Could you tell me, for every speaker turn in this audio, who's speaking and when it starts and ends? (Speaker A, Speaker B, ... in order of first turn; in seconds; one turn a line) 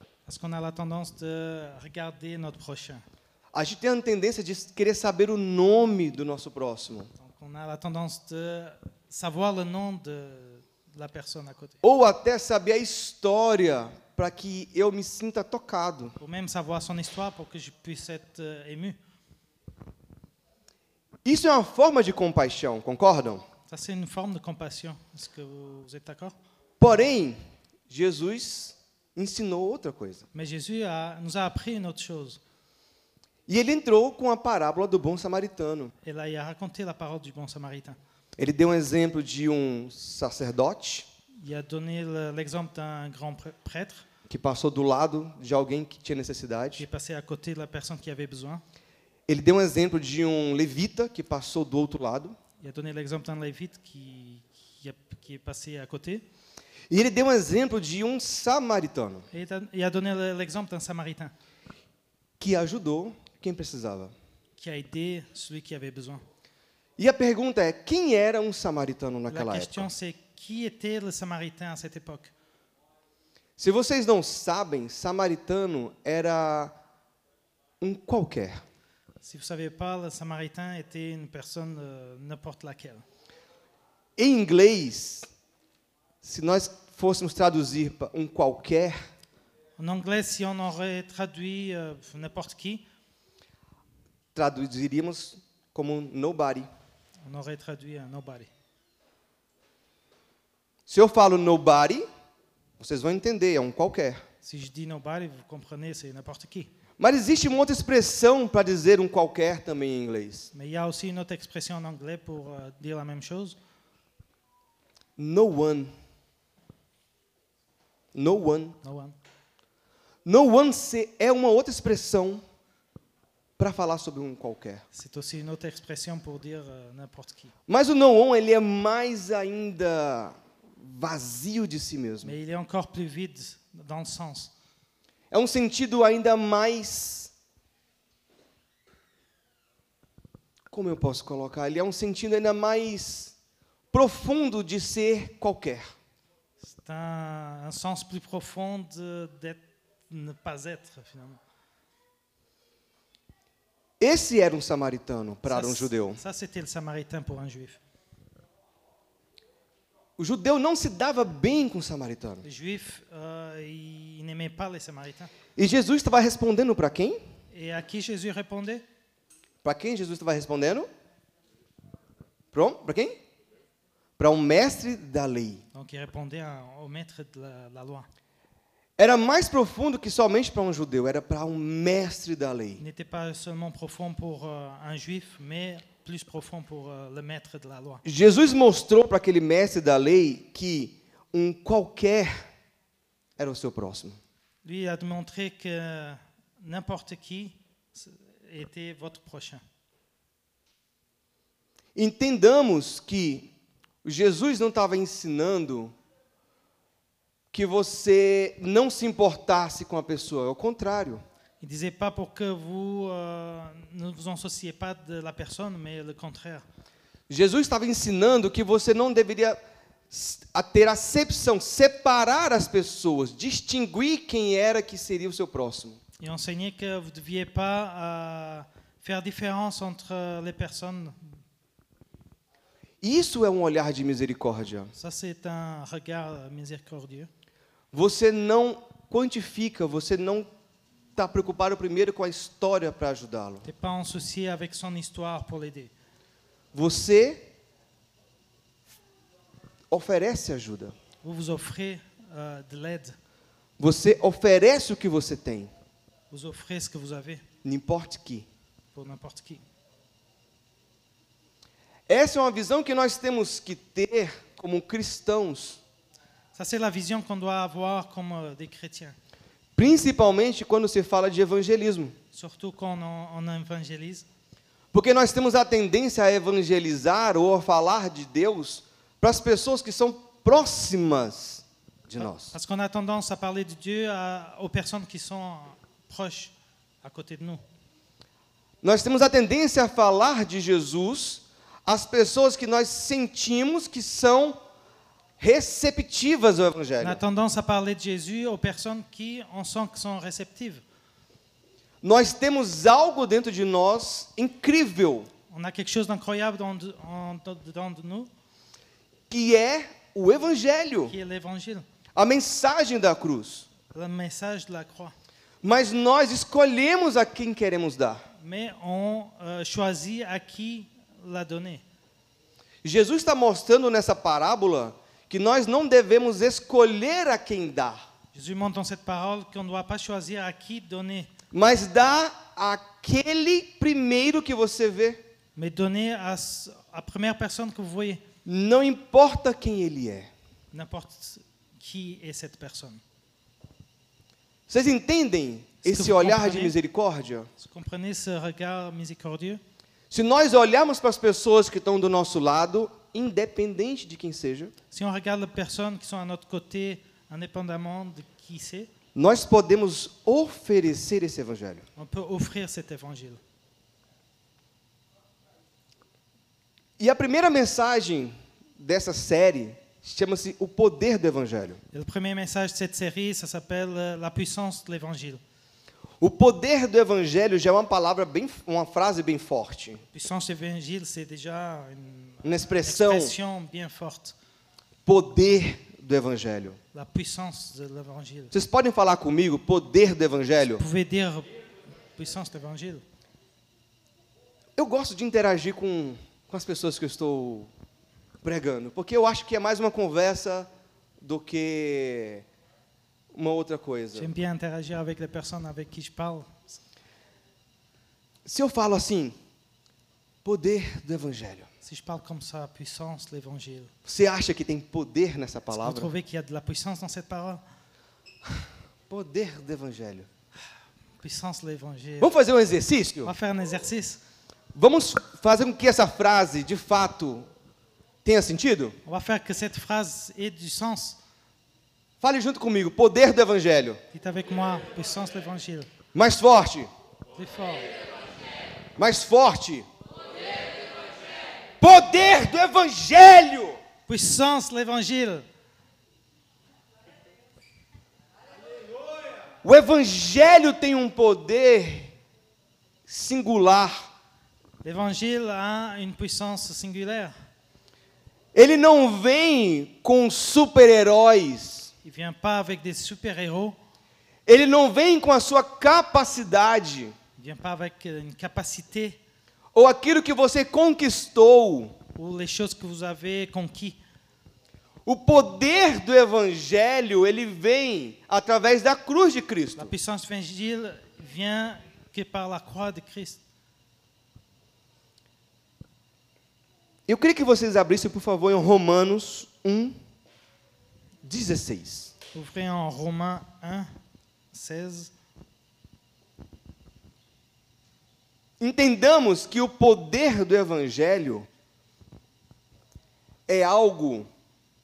Speaker A: 0.2-3.0
Speaker B: 3.5-7.1
Speaker A: 7.2-11.8
Speaker B: 11.8-16.1
Speaker A: 16.2-19.0
Speaker B: 21.2-23.4
Speaker A: 23.7-26.3
Speaker B: 26.8-30.2
Speaker A: 30.3-32.4
Speaker B: 33.5-35.9
Speaker A: 36.0-38.0
Speaker B: 38.4-41.1
Speaker A: 41.4-44.0
Speaker B: 44.3-46.8
Speaker A: 46.8-48.6
Speaker B: 49.3-52.4
Speaker A: 52.6-56.2
Speaker B: 56.9-59.3
Speaker A: 59.3-61.3
Speaker B: 62.4-64.1
Speaker A: 64.6-66.2
Speaker B: 67.0-69.9
Speaker A: 69.3-72.3
Speaker B: 73.6-76.7
Speaker B: 77.8-78.6
Speaker A: 79.2-83.0
Speaker B: 84.2-85.3
Speaker B: 86.2-89.0
Speaker A: 89.8-92.8
Speaker B: 94.3-96.7
Speaker A: 97.2-98.5
Speaker B: 100.9-102.0
Speaker B: 102.8-104.2
Speaker A: 104.4-106.7
Speaker B: 107.0-110.5
Speaker A: 110.5-113.6
Speaker B: 115.2-115.9
Speaker B: 118.1-118.8
Speaker A: 118.8-119.2
Speaker B: 120.2-122.4
Speaker B: 123.6-124.8
Speaker A: 124.9-127.5
Speaker B: 127.7-132.3
Speaker A: 132.2-134.5
Speaker B: 135.3-137.3
Speaker B: 140.7-143.3
Speaker B: 143.9-145.9
Speaker A: 146.6-151.4
Speaker B: 154.0-156.2
Speaker A: 155.4-157.8
Speaker B: 160.2-162.4
Speaker A: 162.4-165.3
Speaker B: 165.6-167.2
Speaker A: 167.5-168.8
Speaker B: 169.6-170.9
Speaker B: 172.5-173.2
Speaker B: 174.2-175.6
Speaker A: 175.7-178.1
Speaker B: 179.0-182.8
Speaker A: 182.8-188.0
Speaker B: 188.0-192.4
Speaker B: 193.4-194.2
Speaker A: 194.6-199.6
Speaker B: 201.9-203.5
Speaker B: 204.0-205.9
Speaker B: 207.5-211.2
Speaker A: 211.6-216.6
Speaker B: 217.3-219.6
Speaker B: 220.1-226.0
Speaker A: 226.2-231.4
Speaker B: 233.0-234.9
Speaker A: 234.9-237.3
Speaker B: 237.9-240.5
Speaker B: 241.2-243.7
Speaker A: 243.6-245.9
Speaker B: 246.7-247.4
Speaker B: 249.9-250.9
Speaker A: 251.2-253.2
Speaker B: 253.8-255.7
Speaker A: 256.3-257.4
Speaker B: 257.6-258.4
Speaker A: 258.9-259.6
Speaker B: 262.1-265.8
Speaker A: 266.5-269.1
Speaker B: 269.8-272.1
Speaker A: 272.3-274.2
Speaker B: 274.9-282.5
Speaker A: 282.2-287.6
Speaker B: 288.8-294.6
Speaker B: 295.4-297.2
Speaker A: 297.0-300.8
Speaker B: 302.0-305.3
Speaker A: 305.5-308.3
Speaker B: 309.3-311.1
Speaker A: 311.1-311.8
Speaker B: 312.1-313.7
Speaker A: 313.9-315.1
Speaker B: 315.6-318.2
Speaker A: 318.4-321.8
Speaker B: 322.8-328.0
Speaker A: 328.3-331.3
Speaker B: 331.5-335.2
Speaker A: 335.6-338.2
Speaker B: 338.4-340.3
Speaker A: 340.7-343.0
Speaker B: 344.7-347.5
Speaker A: 345.8-346.7
Speaker A: 347.6-349.6
Speaker B: 350.1-354.7
Speaker A: 354.9-358.9
Speaker B: 359.1-361.8
Speaker A: 361.9-363.4
Speaker B: 367.0-371.8
Speaker A: 371.9-375.4
Speaker B: 376.2-380.0
Speaker A: 380.1-384.4
Speaker B: 382.4-383.3
Speaker B: 385.1-386.8
Speaker A: 386.9-388.5
Speaker B: 388.5-390.8
Speaker A: 390.7-391.5
Speaker A: 392.1-393.0
Speaker B: 394.8-397.7
Speaker B: 398.4-400.7
Speaker B: 401.2-402.4
Speaker B: 403.3-404.3
Speaker A: 404.1-406.8
Speaker B: 408.4-409.4
Speaker B: 410.4-411.7
Speaker A: 411.8-413.9
Speaker B: 414.0-416.1
Speaker A: 415.7-417.6
Speaker B: 418.5-420.3
Speaker A: 421.2-422.3
Speaker B: 422.2-423.3
Speaker A: 423.2-424.2
Speaker B: 424.7-427.5
Speaker B: 428.2-429.0
Speaker A: 429.0-431.2
Speaker B: 432.2-434.0
Speaker A: 434.1-435.9
Speaker B: 436.1-436.9
Speaker A: 437.3-437.9
Speaker B: 439.0-439.9
Speaker B: 441.8-443.8
Speaker A: 444.1-445.4
Speaker B: 449.6-452.1
Speaker B: 453.1-454.1
Speaker A: 454.8-457.3
Speaker B: 458.5-461.9
Speaker A: 462.0-463.8
Speaker B: 464.5-467.1
Speaker A: 467.4-469.2
Speaker B: 469.7-471.9
Speaker A: 472.1-474.0
Speaker B: 475.1-479.9
Speaker A: 479.8-483.4
Speaker B: 487.1-489.9
Speaker B: 491.2-492.1
Speaker A: 492.3-493.9
Speaker A: 494.5-495.1
Speaker B: 498.6-501.5
Speaker B: 503.5-504.3